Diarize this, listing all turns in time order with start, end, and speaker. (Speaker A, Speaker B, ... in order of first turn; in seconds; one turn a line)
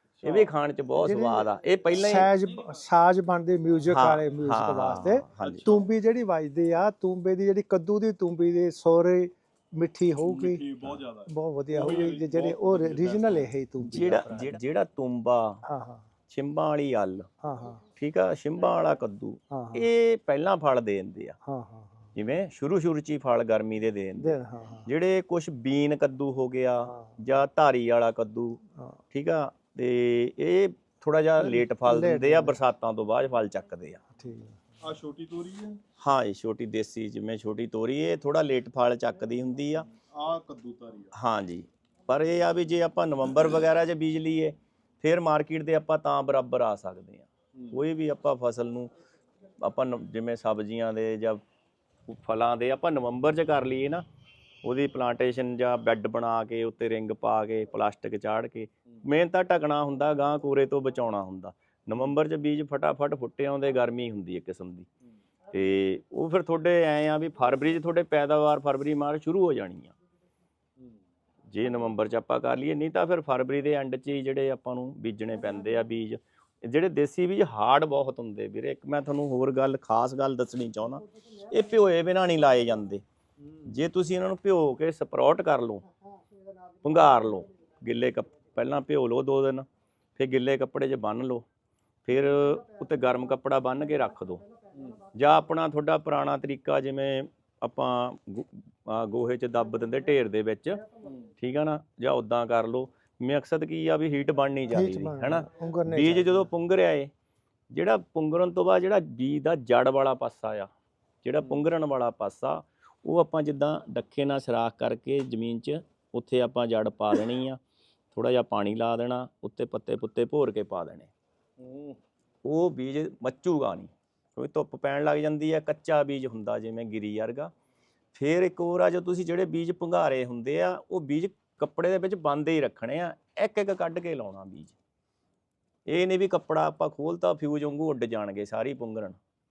Speaker A: 0.2-0.5
Speaker B: 0.2-2.3
Speaker C: 1.0-10.6
Speaker B: 3.9-5.7
Speaker A: 10.2-13.5
Speaker C: 11.3-14.6
Speaker B: 13.8-15.6
Speaker C: 15.7-16.0
Speaker B: 16.3-17.3
Speaker C: 17.4-17.8
Speaker B: 17.9-21.4
Speaker C: 19.5-19.9
Speaker C: 21.4-22.1
Speaker B: 22.1-28.6
Speaker C: 24.2-24.9
Speaker C: 26.9-27.2
Speaker B: 29.1-34.0
Speaker C: 31.4-32.6
Speaker C: 34.2-34.6
Speaker A: 34.8-35.8
Speaker B: 36.0-39.9
Speaker A: 40.1-41.1
Speaker B: 41.1-48.9
Speaker B: 49.6-51.4
Speaker B: 52.1-54.0
Speaker B: 54.6-64.9
Speaker B: 65.5-69.9
Speaker B: 71.5-83.0
Speaker B: 83.7-85.8
Speaker B: 86.8-89.7
Speaker B: 90.2-91.4
Speaker B: 92.0-94.4
Speaker A: 94.7-95.0
Speaker B: 95.1-100.8
Speaker B: 101.4-107.1
Speaker C: 104.7-106.5
Speaker B: 107.7-110.7
Speaker B: 111.2-117.6
Speaker B: 118.1-121.1
Speaker A: 121.6-122.0
Speaker B: 122.4-127.5
Speaker B: 128.1-134.8
Speaker B: 135.9-139.2